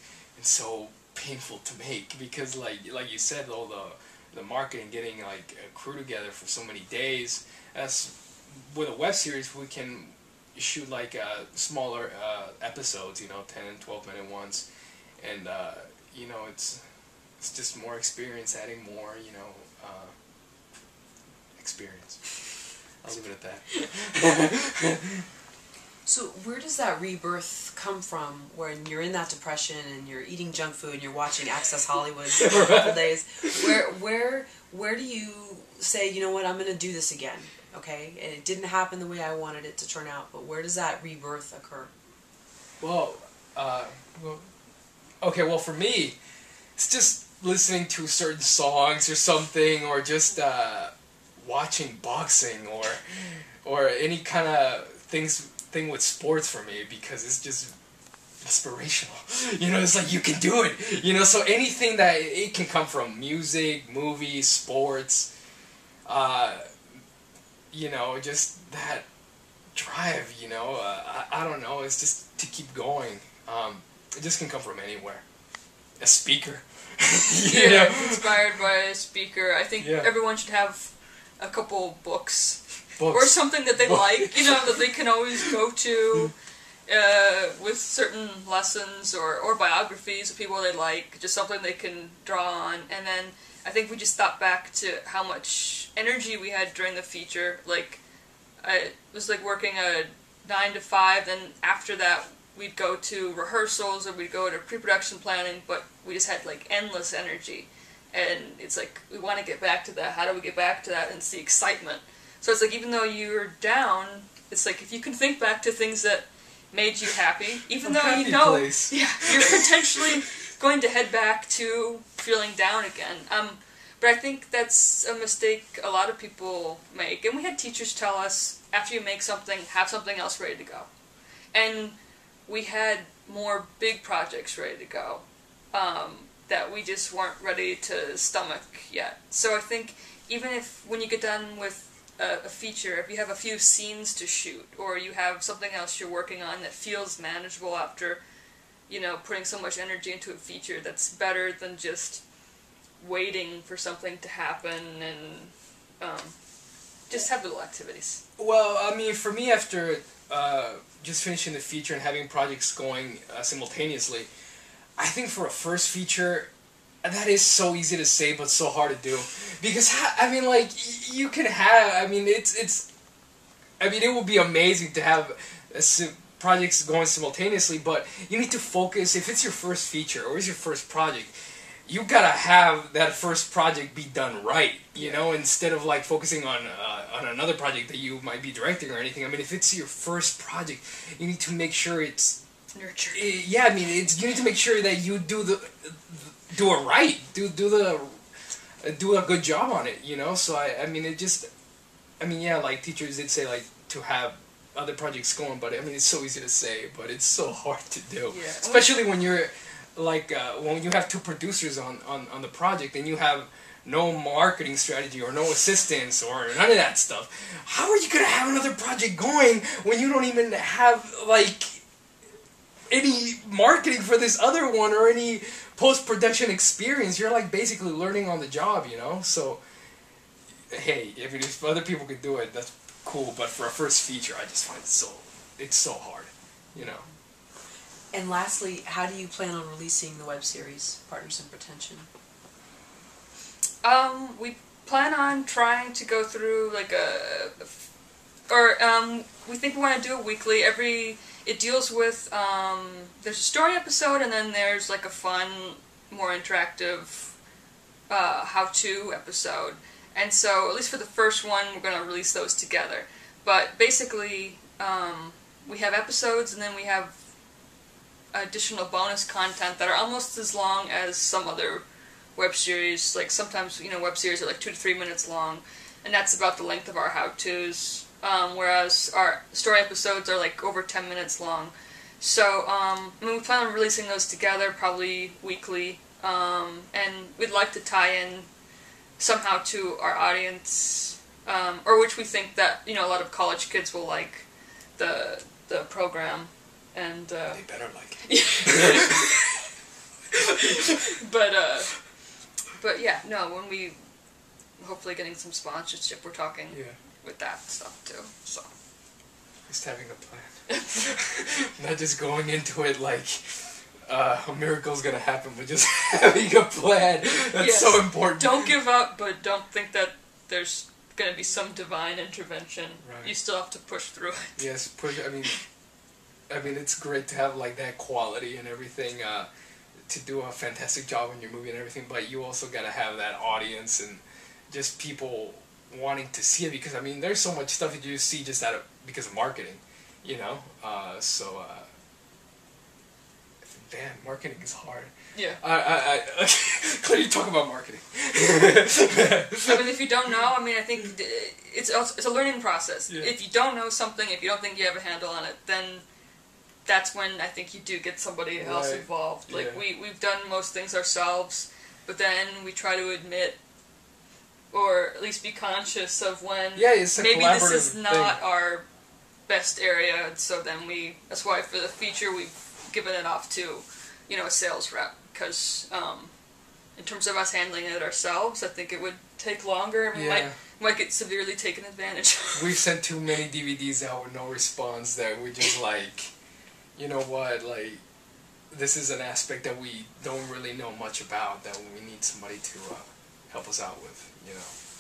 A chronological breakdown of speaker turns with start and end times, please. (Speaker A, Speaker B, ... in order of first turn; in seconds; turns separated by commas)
Speaker A: 0.4-14.7, Speaker A: 15.2-16.8, Speaker A: 17.4-20.1, Speaker A: 21.6-22.4, Speaker A: 23.0-25.2, Speaker B: 26.1-41.9, Speaker A: 32.3-33.0, Speaker A: 42.8-44.5, Speaker A: 45.2-46.2, Speaker A: 46.8-57.8, Speaker A: 58.4-65.3, Speaker A: 66.1-66.7, Speaker A: 67.7-69.1, Speaker A: 69.7-75.2, Speaker A: 76.0-78.5, Speaker C: 77.4-86.3, Speaker A: 79.8-80.1, Speaker A: 83.0-84.6, Speaker C: 86.9-98.0, Speaker C: 98.6-130.9, Speaker A: 117.8-119.7, Speaker C: 131.5-132.0, Speaker C: 132.5-148.2, Speaker C: 148.9-152.2, Speaker C: 153.0-156.3, Speaker C: 157.1-158.2, Speaker A: 158.4-164.3, Speaker A: 165.0-166.5, Speaker A: 167.0-172.9, Speaker A: 173.8-181.3, Speaker A: 181.9-192.4, Speaker C: 185.0-185.3, Speaker C: 192.7-193.3, Speaker A: 193.1-198.2, Speaker A: 198.8-201.5, Speaker A: 202.2-221.8, Speaker C: 208.3-209.0, Speaker A: 222.9-229.6, Speaker A: 230.7-237.0, Speaker B: 238.1-242.1, Speaker C: 243.8-247.9, Speaker C: 248.5-257.4, Speaker C: 258.1-267.2, Speaker C: 268.3-288.5, Speaker C: 289.2-297.6, Speaker A: 297.5-299.4, Speaker C: 298.3-299.6, Speaker C: 300.5-302.0, Speaker C: 302.8-304.0, Speaker C: 304.8-308.7, Speaker A: 306.7-307.0, Speaker A: 309.7-318.8, Speaker C: 310.7-311.2, Speaker C: 317.6-324.6, Speaker A: 323.0-323.3, Speaker A: 324.6-325.6, Speaker A: 326.5-329.5, Speaker A: 330.1-341.9, Speaker A: 343.6-349.9, Speaker C: 345.3-345.6, Speaker C: 349.6-356.1, Speaker A: 353.1-353.3, Speaker C: 356.9-363.6, Speaker A: 358.6-359.8, Speaker C: 364.7-368.9, Speaker A: 366.8-368.4, Speaker C: 369.5-376.3, Speaker C: 377.0-382.8, Speaker A: 380.1-380.6, Speaker A: 382.5-386.3, Speaker A: 387.0-388.0, Speaker A: 388.7-394.7